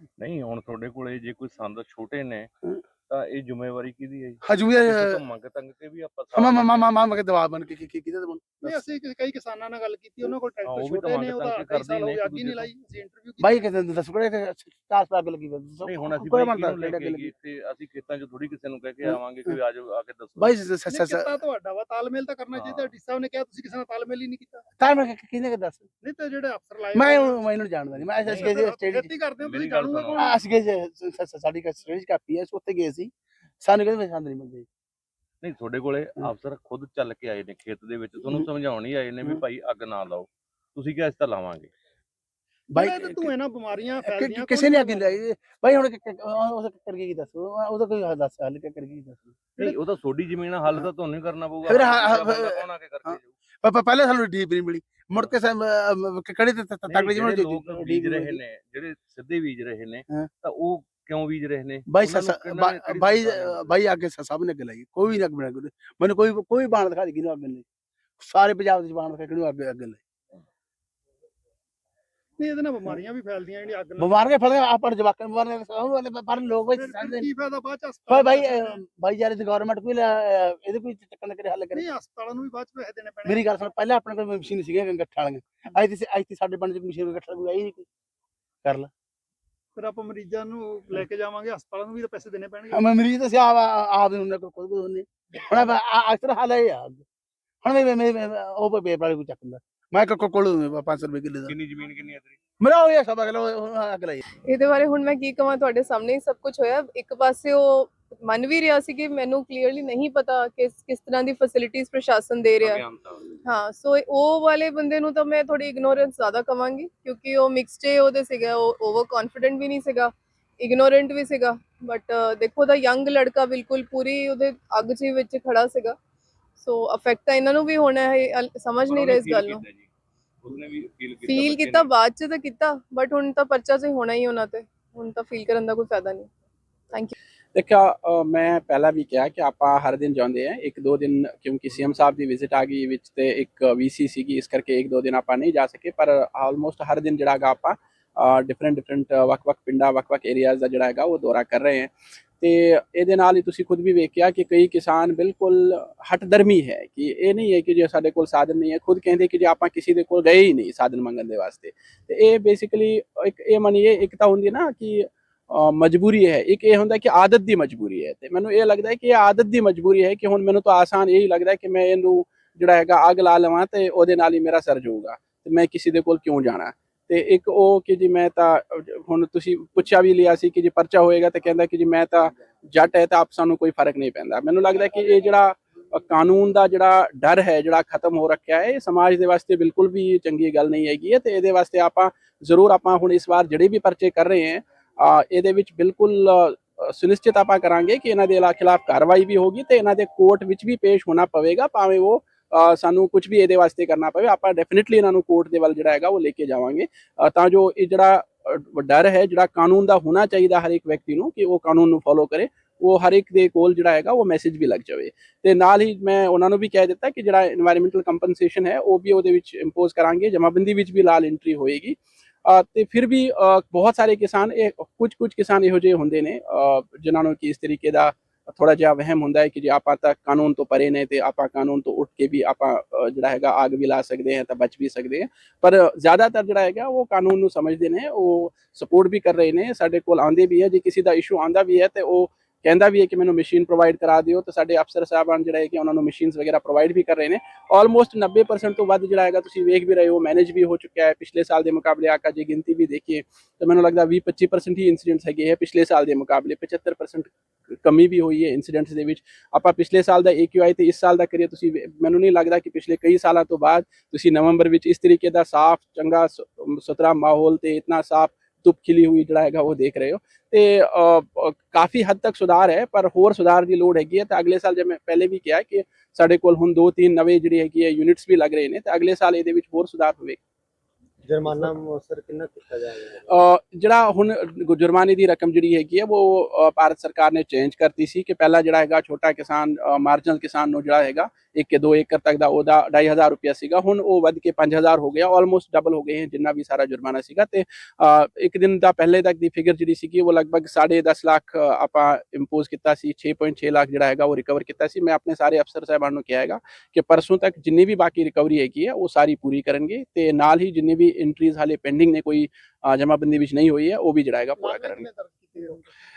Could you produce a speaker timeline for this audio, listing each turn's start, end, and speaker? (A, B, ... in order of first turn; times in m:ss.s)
0:00.2-0:02.5 A
0:03.1-0:07.0 A
0:04.4-0:05.2 B
0:06.3-0:08.8 B
0:08.6-0:13.6 C
0:10.6-0:12.8 A
0:13.4-0:17.3 B
0:15.8-0:20.6 A
0:19.0-0:19.6 B
0:20.4-0:21.3 B
0:20.9-0:24.6 C
0:22.5-0:23.0 A
0:24.8-0:25.9 B
0:26.0-0:27.3 C
0:27.0-0:29.1 B
0:28.2-0:30.4 C
0:29.4-0:30.3 A
0:30.2-0:34.7 B
0:35.4-0:41.7 A
0:42.7-0:43.3 B
0:42.7-0:45.1 C
0:44.0-0:49.4 B
0:49.6-0:53.4 A
0:51.6-0:58.4 B
0:56.9-1:03.8 A
1:01.9-1:07.7 B
1:08.2-1:10.0 B
1:12.4-1:14.1 C
1:14.0-1:17.3 B
1:16.8-1:18.8 C
1:18.1-1:21.8 B
1:21.7-1:23.4 C
1:23.3-1:27.9 B
1:28.6-1:28.9 B
1:29.8-1:32.8 C
1:32.7-1:37.0 B
1:37.6-1:41.6 B
1:41.5-1:42.4 A
1:42.6-1:44.2 B
1:44.4-1:52.8 D
1:52.6-1:53.3 A
1:53.4-2:06.0 D
2:06.6-2:09.6 D
2:08.9-2:09.9 A
2:10.4-2:11.9 A
2:11.2-2:16.3 D
2:17.6-4:40.4 E
4:41.2-4:43.4 F
4:43.3-5:15.1 E
5:14.6-5:15.9 C